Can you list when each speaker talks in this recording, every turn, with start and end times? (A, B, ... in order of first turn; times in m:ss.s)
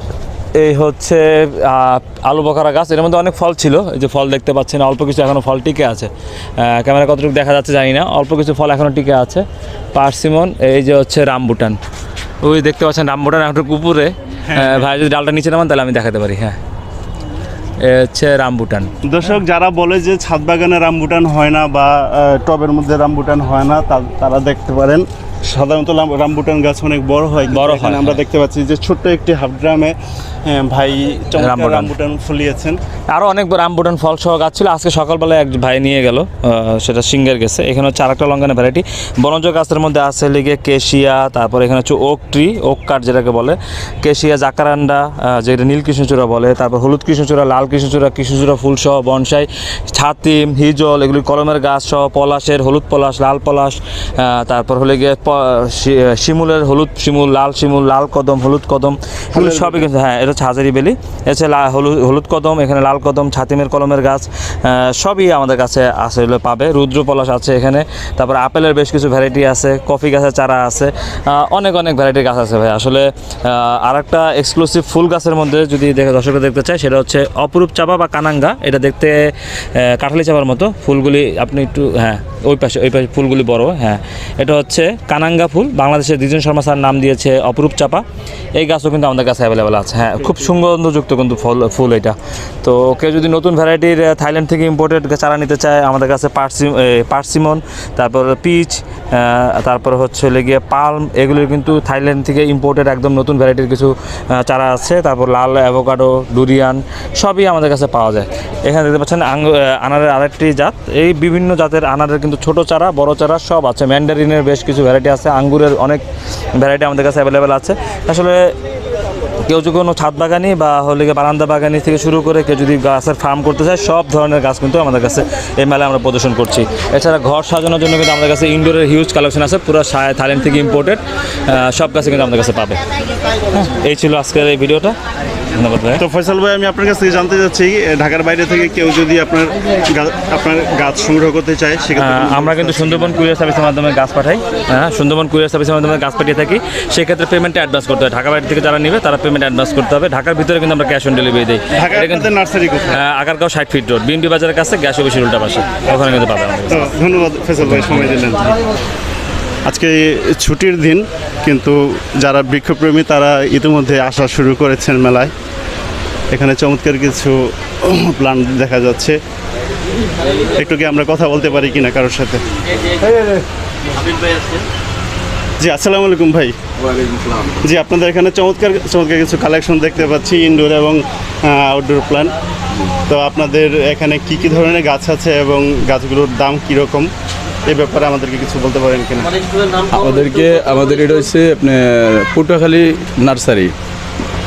0:00.6-0:11.8 A
0:12.4-0:16.6 A
0:14.5-0:14.8 B
0:17.8-0:18.9 A
0:19.1-0:32.8 B
0:27.5-0:28.2 A
0:31.4-0:31.9 A
0:33.1-1:19.2 A
0:59.4-0:59.8 B
1:19.8-1:28.0 A
1:28.6-1:56.0 A
1:56.6-1:58.4 A
1:59.4-2:12.8 A
2:13.5-2:14.9 A
2:15.6-2:16.0 A
2:16.0-2:23.2 B
2:22.0-2:32.3 A
2:31.8-2:33.0 B
2:32.9-2:37.0 A
2:36.7-2:38.5 B
2:37.6-2:38.2 A
2:39.6-2:45.3 B
2:46.3-2:49.2 B
2:50.6-2:52.4 B
2:55.6-2:56.6 B
2:57.6-3:02.3 B
3:03.1-3:07.1 B
3:07.7-3:09.3 B
3:09.9-3:13.7 C